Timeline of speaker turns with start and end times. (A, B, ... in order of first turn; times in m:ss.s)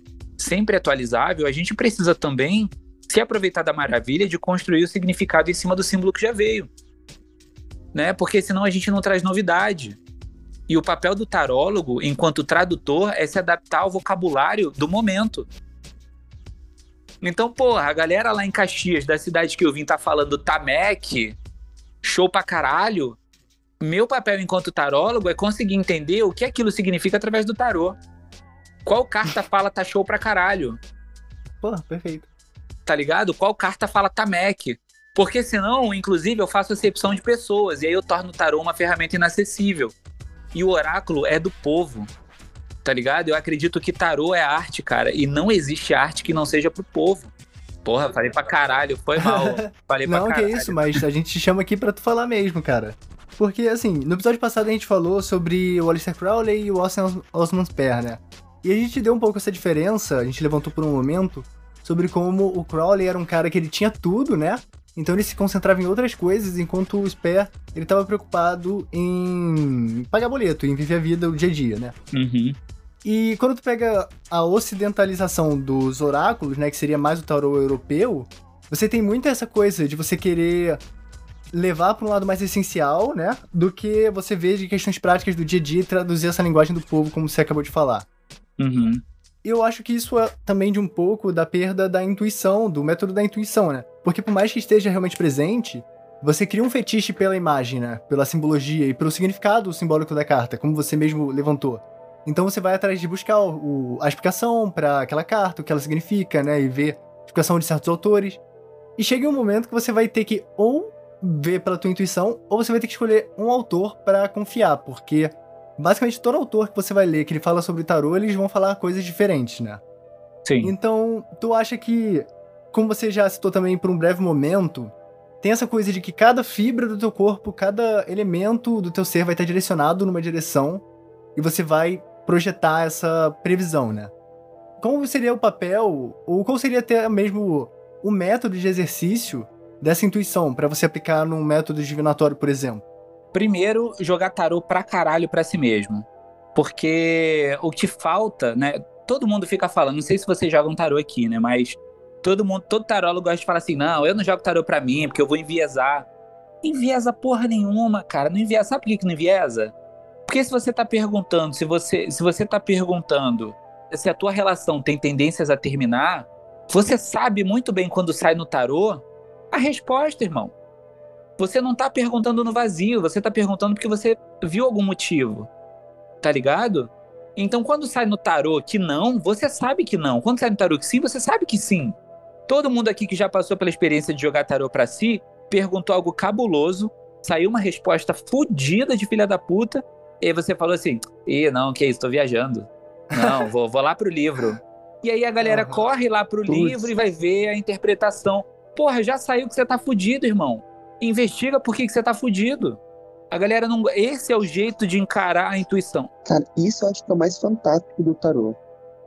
0:00.4-0:06.7 A
0:07.9-0:10.0 A
0:10.7-0:15.5 A
0:17.2-0:21.4 A
0:22.0-0:23.2 A
0:23.8-0:28.0 A
0:28.9-0:30.8 A
0:31.6-0:32.3 B
0:32.9-0:40.0 A
0:40.5-0:42.1 A
0:42.8-0:47.3 A
0:47.8-0:51.0 A
0:49.2-1:12.0 B
1:12.1-1:12.6 A
1:13.0-1:20.8 B
1:21.5-1:28.1 B
1:28.6-1:29.0 A
1:29.4-1:48.4 B
1:49.0-1:59.8 B
2:00.4-2:00.7 A
2:00.6-2:10.8 B
2:11.4-2:14.1 B
2:14.8-2:22.8 B
2:23.3-2:36.1 A
2:36.6-2:39.7 A
2:40.3-2:50.5 A
2:51.4-2:55.5 A
2:56.2-3:02.0 A
3:02.5-3:26.1 A
3:13.1-3:13.4 B
3:15.4-3:15.8 B
3:16.5-3:16.9 C
3:26.3-3:28.6 C